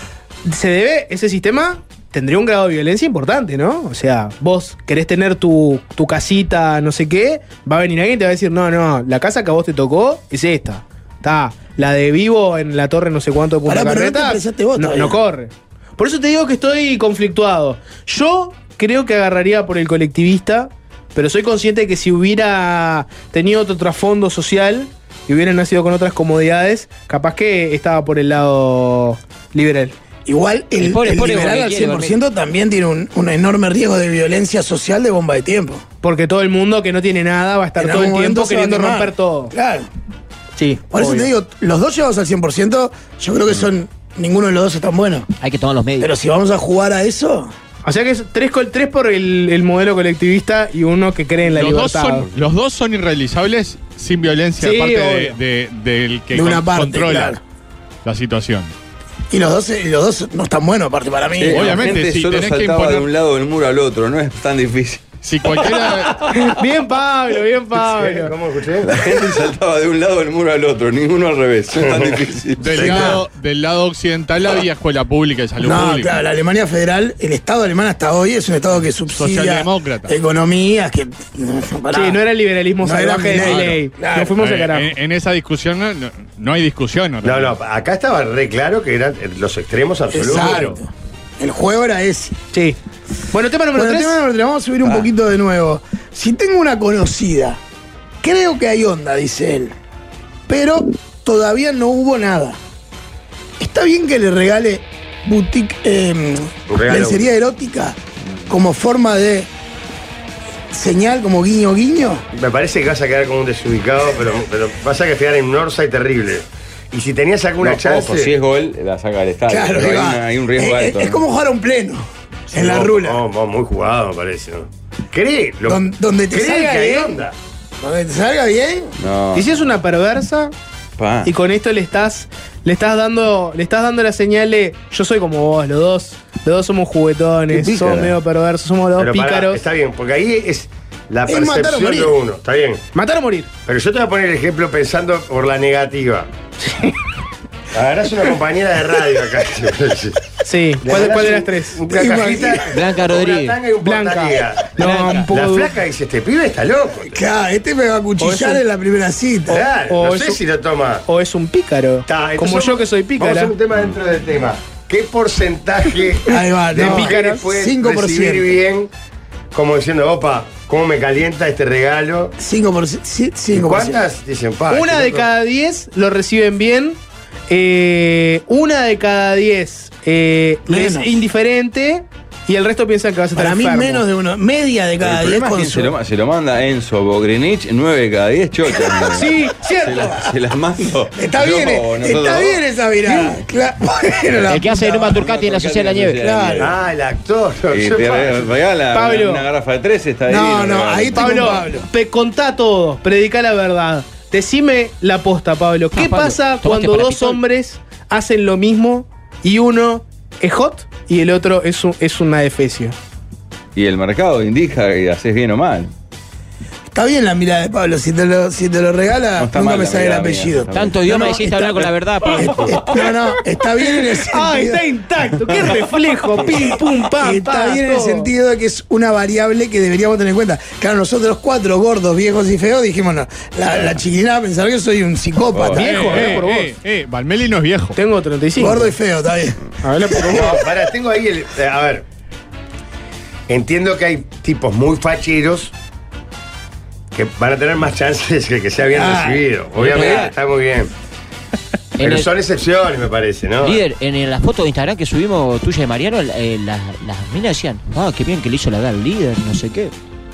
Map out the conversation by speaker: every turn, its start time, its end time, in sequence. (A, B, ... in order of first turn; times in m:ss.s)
0:00.5-0:30.0 A
0:13.7-0:15.2 B
0:30.3-0:35.8 B
0:30.8-0:32.2 C
0:36.0-0:39.5 A
0:37.8-0:39.9 B
0:40.6-0:41.3 A
0:40.9-0:45.3 B
0:45.4-0:46.1 C
0:46.0-0:47.5 B
0:47.8-0:52.3 A
0:51.5-0:57.4 D
0:54.6-0:55.4 A
0:56.3-0:57.4 B
0:58.0-0:58.7 D
0:59.3-1:01.8 B
1:01.4-1:06.6 E
1:01.5-1:03.1 D
1:05.2-1:06.4 D
1:06.4-1:08.3 A
1:07.8-1:08.9 F
1:08.8-1:13.2 E
1:11.8-1:13.2 F
1:12.6-1:16.1 D
1:12.8-1:13.1 B
1:15.6-1:22.2 B
1:19.2-1:20.1 D
1:21.9-1:24.9 A
1:22.8-1:24.4 B
1:23.4-1:23.8 D
1:24.4-1:27.6 D
1:27.2-1:30.8 F
1:30.1-1:32.4 B
1:32.5-1:32.8 A
1:33.3-1:34.2 A
1:33.8-1:37.6 B
1:38.2-1:39.8 B
1:40.5-1:42.6 B
1:43.6-1:48.0 B
1:46.7-1:47.3 F
1:48.5-1:49.5 B
1:50.7-1:52.2 B
1:52.3-1:58.3 F
1:57.6-2:01.2 E
1:59.5-2:03.2 B
2:02.5-2:07.4 F
2:05.7-2:07.2 B
2:07.8-2:09.0 B
2:09.0-2:09.6 E
2:09.4-2:10.5 A
2:11.0-2:11.3 E
2:11.2-2:19.6 A
2:17.5-2:18.2 E
2:19.0-2:22.8 F
2:21.3-2:22.2 B
2:23.0-2:23.5 A
2:23.7-2:26.3 F
2:26.6-2:27.0 A
2:27.7-2:30.2 F
2:30.4-2:31.8 A
2:30.8-2:37.2 F
2:31.9-2:32.8 B
2:32.7-2:33.6 C
2:33.8-2:35.8 A
2:34.8-2:35.3 C
2:37.1-2:39.6 B
2:38.2-2:38.6 A
2:39.5-2:40.4 A
2:39.5-2:41.0 F
2:41.1-2:43.6 A
2:42.1-2:48.9 F
2:46.3-2:48.6 B
2:46.7-2:47.4 A
2:49.5-2:52.4 F
2:52.4-2:54.0 B
2:53.5-2:55.3 F
2:54.7-3:04.0 A
3:00.7-3:01.2 B
3:03.4-3:05.9 B
3:05.0-3:13.4 E
3:09.0-3:10.2 A
3:11.1-3:15.2 B
3:14.3-3:16.8 E
3:14.5-3:16.2 C
3:16.2-3:16.7 B
3:16.6-3:18.5 F
3:17.7-3:21.9 E
3:18.9-3:19.4 A
3:20.3-3:21.9 B
3:21.2-3:33.0 A
3:25.9-3:27.4 C
3:33.8-3:35.9 E
3:36.9-3:44.8 B
3:39.4-3:41.0 E
3:40.7-3:42.7 C
3:44.0-3:48.3 A
3:46.6-3:56.0 B
3:55.5-3:56.4 E
3:55.8-3:56.8 A
3:55.8-3:58.0 D
3:58.0-3:58.9 A
3:58.6-4:00.2 B
3:59.8-4:00.6 A
4:00.3-4:02.0 F
4:03.5-4:05.8 F
4:07.1-4:10.9 F
4:08.9-4:09.5 B
4:09.8-4:10.3 C
4:12.0-4:12.3 C
4:12.0-4:13.8 F
4:13.6-4:19.9 C